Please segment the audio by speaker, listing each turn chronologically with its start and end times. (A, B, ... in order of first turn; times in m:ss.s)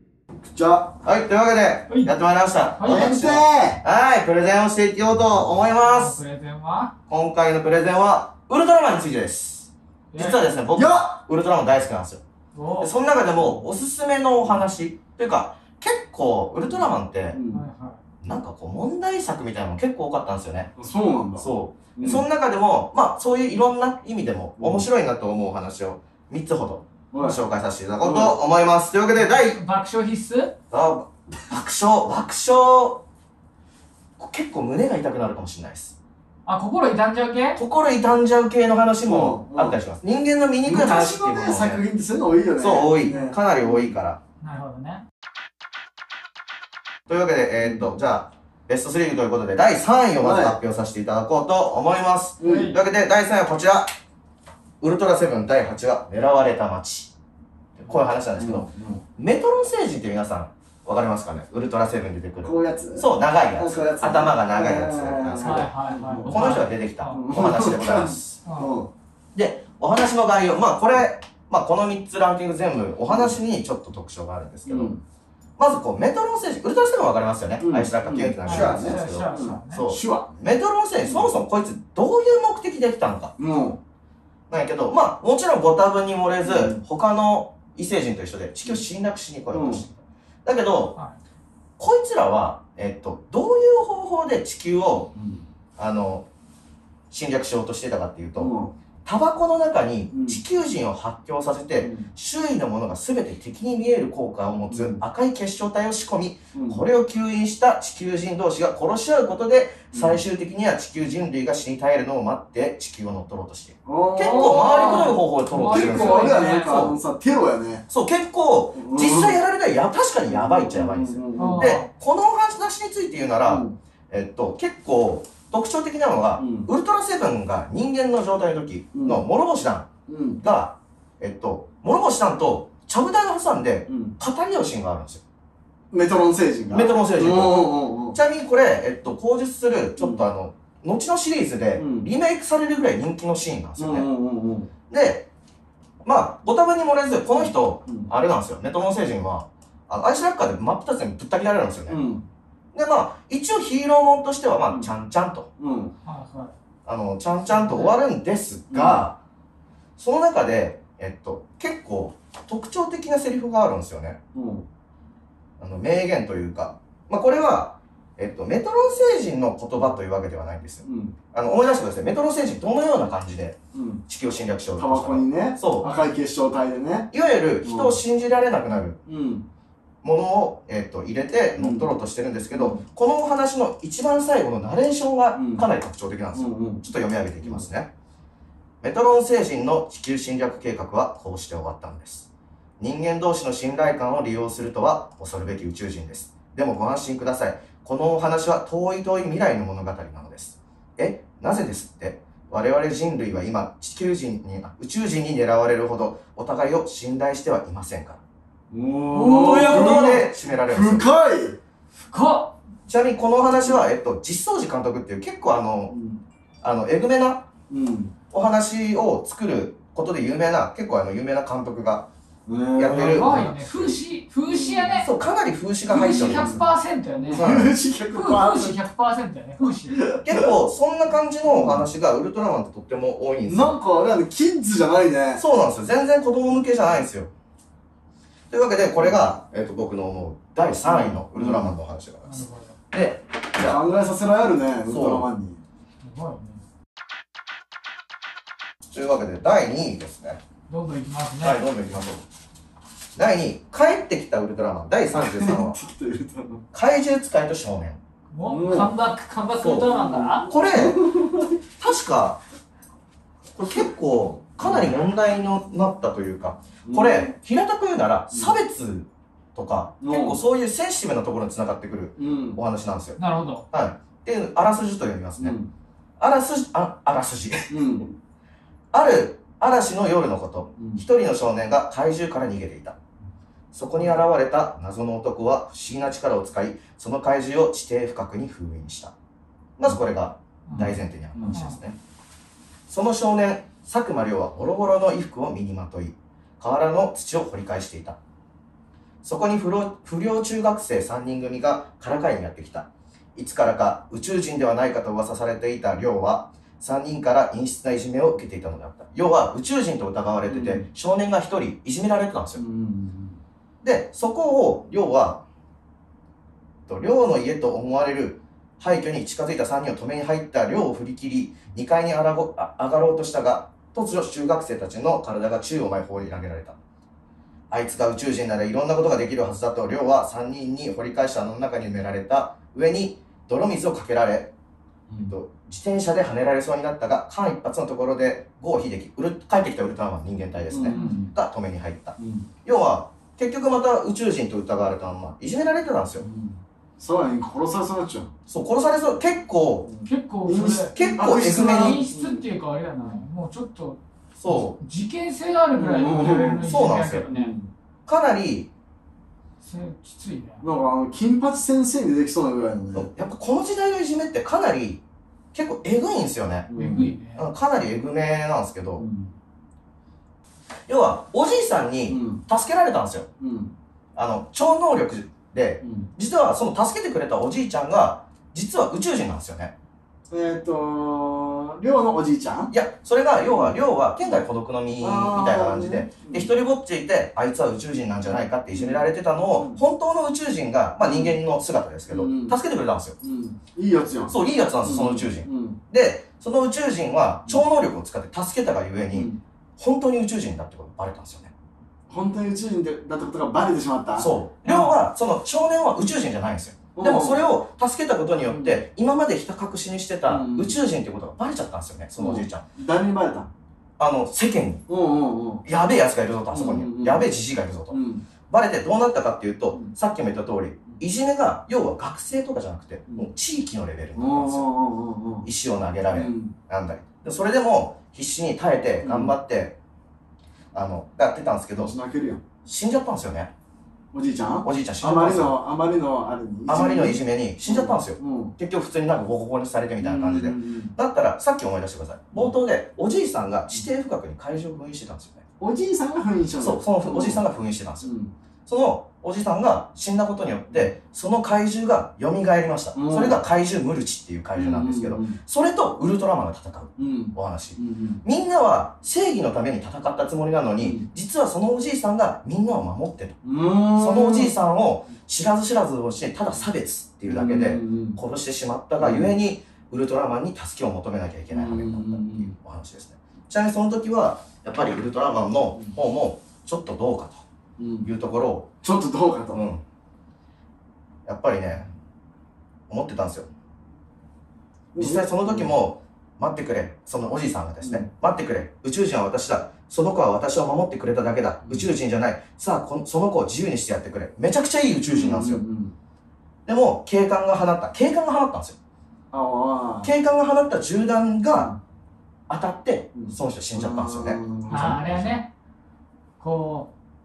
0:00.4-0:01.0 A
0:01.0-0:06.2 B
0:01.9-0:02.1 C
0:02.8-0:03.2 C
0:02.8-0:03.8 A
0:05.8-0:06.9 C
0:07.1-0:12.2 B
0:10.1-0:10.4 C
0:10.7-0:11.2 A
0:12.5-0:13.5 C
0:12.8-0:17.4 B
0:17.3-0:17.6 A
0:17.5-0:18.0 C
0:18.2-0:20.7 B
0:20.8-0:22.2 A
0:21.4-0:29.6 B
0:24.6-0:24.9 A
0:27.1-0:27.4 A
0:28.0-0:28.4 A
0:29.1-0:30.6 C
0:30.7-0:33.0 B
0:34.2-0:36.0 B
0:36.4-0:37.6 C
0:37.6-0:41.8 B
0:39.0-0:39.8 A
0:40.6-0:44.0 A
0:42.6-0:44.2 B
0:44.4-0:45.0 C
0:47.1-0:53.9 B
0:47.6-0:47.9 A
0:50.2-0:50.6 A
0:52.4-0:52.8 A
0:52.4-0:52.8 C
0:54.8-0:57.1 B
0:57.8-1:08.4 B
0:58.4-0:59.0 A
1:02.4-1:06.5 A
1:05.4-1:07.2 C
1:07.1-1:08.9 A
1:08.4-1:08.8 C
1:09.4-1:14.9 B
1:13.1-1:13.4 A
1:14.7-1:15.0 A
1:15.6-1:23.3 B
1:17.6-1:20.5 A
1:18.4-1:19.9 C
1:21.0-1:21.4 A
1:23.4-1:23.8 A
1:24.5-1:31.0 B
1:26.4-1:26.8 A
1:29.5-1:29.8 A
1:31.8-1:35.1 B
1:35.1-1:35.4 A
1:35.8-1:36.3 B
1:37.1-1:38.5 B
1:38.4-1:38.7 A
1:39.0-1:57.0 B
1:40.1-1:40.4 A
1:41.8-1:42.1 A
1:44.7-1:45.0 A
1:46.5-1:46.8 A
1:49.9-1:50.2 A
1:53.8-1:57.9 A
1:54.2-1:56.7 C
1:57.9-2:09.9 B
1:58.7-1:59.4 A
2:00.3-2:01.7 A
2:01.4-2:01.9 C
2:03.4-2:03.8 A
2:06.4-2:06.7 A
2:08.9-2:09.3 A
2:10.1-2:10.4 A
2:10.4-2:15.2 B
2:13.9-2:14.2 A
2:15.9-2:18.2 A
2:16.7-2:24.1 B
2:20.0-2:20.3 A
2:21.8-2:22.1 A
2:23.8-2:24.7 A
2:24.9-2:25.3 B
2:26.0-2:32.0 B
2:27.4-2:28.1 A
2:31.9-2:32.2 A
2:32.7-2:35.5 B
2:35.6-2:35.9 A
2:36.0-2:36.5 C
2:36.9-2:39.2 B
2:37.5-2:38.0 C
2:38.7-2:39.1 A
2:40.0-2:44.2 B
2:44.3-2:44.7 A
2:45.6-2:56.0 B
2:50.8-2:51.2 A
2:53.7-2:54.0 A
2:54.8-2:57.1 A
2:57.1-2:59.0 B
2:57.6-2:58.0 A
2:59.1-2:59.4 A
3:00.0-3:07.9 B
3:01.6-3:01.9 A
3:02.5-3:02.8 A
3:05.3-3:05.7 A
3:06.3-3:06.9 A
3:07.4-3:07.7 A
3:08.8-3:12.3 B
3:12.8-3:28.2 B
3:28.7-3:31.6 A
3:29.1-3:31.1 B
3:29.5-3:30.1 C
3:32.0-3:32.6 C
3:32.9-3:35.9 B
3:33.6-3:33.8 A
3:35.9-3:36.2 A
3:36.6-3:37.5 B
3:37.7-3:38.2 A
3:38.3-3:42.1 B
3:42.5-3:45.0 A
3:42.7-3:43.5 B
3:43.0-3:45.1 C
3:45.0-3:46.6 B
3:45.9-3:48.8 A
3:45.9-3:47.5 C
3:47.3-3:47.8 B
3:48.1-3:50.1 C
3:49.9-3:50.5 A
3:50.2-3:53.8 B
3:51.4-3:51.9 A
3:53.4-3:55.4 A
3:55.4-3:57.3 B
3:58.5-4:03.8 B
3:59.0-3:59.3 A
4:00.8-4:01.7 A
4:02.2-4:02.7 C
4:03.6-4:05.6 A
4:04.9-4:05.3 B
4:06.0-4:06.6 C
4:08.9-4:10.4 B
4:10.7-4:11.6 C
4:11.4-4:12.2 B
4:13.2-4:15.8 B
4:15.1-4:16.6 A
4:16.7-4:18.0 B
4:18.3-4:20.5 C
4:18.4-4:19.0 A
4:19.6-4:19.9 B
4:19.8-4:21.6 A
4:20.4-4:21.0 B
4:21.7-4:22.4 B
4:23.6-4:33.2 B
4:24.6-4:24.9 A
4:26.8-4:27.4 A
4:28.3-4:28.6 A
4:30.0-4:30.4 A
4:32.2-4:32.6 A
4:33.2-4:33.7 C
4:33.7-4:35.6 B
4:35.4-4:35.7 A
4:36.2-4:38.0 B
4:37.7-4:38.2 A
4:38.9-4:43.0 B
4:40.8-4:41.0 A
4:43.7-4:49.1 B
4:49.8-4:52.0 B
4:50.7-4:51.0 C
4:50.7-4:51.6 A
4:51.5-4:51.8 C
4:52.9-4:58.2 B
4:59.2-5:12.6 B
5:10.5-5:10.9 A
5:12.6-5:13.4 A
5:13.8-5:15.4 B
5:16.9-5:26.8 B
5:27.7-5:34.5 B
5:35.1-5:35.4 A
5:35.2-5:46.2 B
5:40.7-5:41.4 A
5:40.8-5:41.2 C
5:42.2-5:42.5 A
5:46.2-5:48.3 A
5:48.5-5:49.9 B
5:49.8-5:52.4 A
5:50.0-5:57.5 C
5:50.7-5:52.0 B
5:53.0-5:53.2 A
5:54.4-5:54.8 B
5:55.7-5:57.7 A
5:56.6-5:57.3 B
5:58.1-5:58.7 B
5:59.6-6:00.6 C
6:00.6-6:03.1 A
6:03.0-6:05.0 B
6:05.5-6:06.7 B
6:06.7-6:07.2 A
6:06.8-6:07.5 C
6:07.3-6:09.0 B
6:09.0-6:09.3 A
6:10.9-6:13.3 B
6:12.1-6:12.4 A
6:13.4-6:13.7 A
6:14.2-6:19.7 B
6:15.8-6:16.1 A
6:20.3-6:22.7 A
6:22.7-6:33.2 B
6:23.5-6:24.4 A
6:25.0-6:26.5 A
6:28.7-6:29.8 A
6:31.0-6:31.4 A
6:32.1-6:32.6 A
6:33.2-6:35.8 A
6:34.3-6:41.5 B
6:39.1-6:39.4 A
6:42.1-6:44.4 A
6:44.2-6:52.7 B
6:44.6-6:45.0 C
6:46.9-6:47.4 A
6:48.4-6:48.9 A
6:50.3-6:50.8 A
6:52.2-6:53.5 A
6:54.0-6:54.8 B
6:54.9-6:55.7 A
6:55.6-7:04.7 B
6:56.5-6:57.3 A
6:57.9-6:58.3 A
7:04.2-7:05.5 A
7:05.4-7:09.8 B
7:06.1-7:06.6 A
7:09.0-7:09.4 A
7:10.7-7:12.0 B
7:11.8-7:12.4 A
7:12.6-7:13.5 B
7:14.1-7:18.6 A
7:14.6-7:15.6 B
7:16.7-7:25.4 B
7:20.0-7:20.9 A
7:25.6-7:27.5 A
7:26.6-7:28.1 B
7:28.0-7:28.3 A
7:28.7-7:43.4 B
7:32.9-7:33.4 A
7:34.5-7:35.4 A
7:37.0-7:38.2 A
7:40.8-7:41.1 A
7:43.4-7:44.6 A
7:44.0-7:57.4 B
7:47.3-7:48.2 A
7:49.0-7:49.4 A
7:51.5-7:52.6 A
7:57.8-7:58.1 A
7:58.0-7:58.7 B
7:58.8-7:59.6 A
7:59.5-7:59.8 B
8:01.3-8:01.9 B
8:02.9-8:03.5 B
8:04.9-8:05.8 A
8:05.0-8:15.6 B
8:07.8-8:08.1 A
8:11.6-8:11.9 A
8:15.1-8:15.9 A
8:16.7-8:18.8 B
8:19.3-8:20.1 A
8:20.0-8:21.7 B
8:22.5-8:25.4 B
8:23.2-8:25.2 A
8:24.7-8:25.5 C
8:26.4-8:26.9 C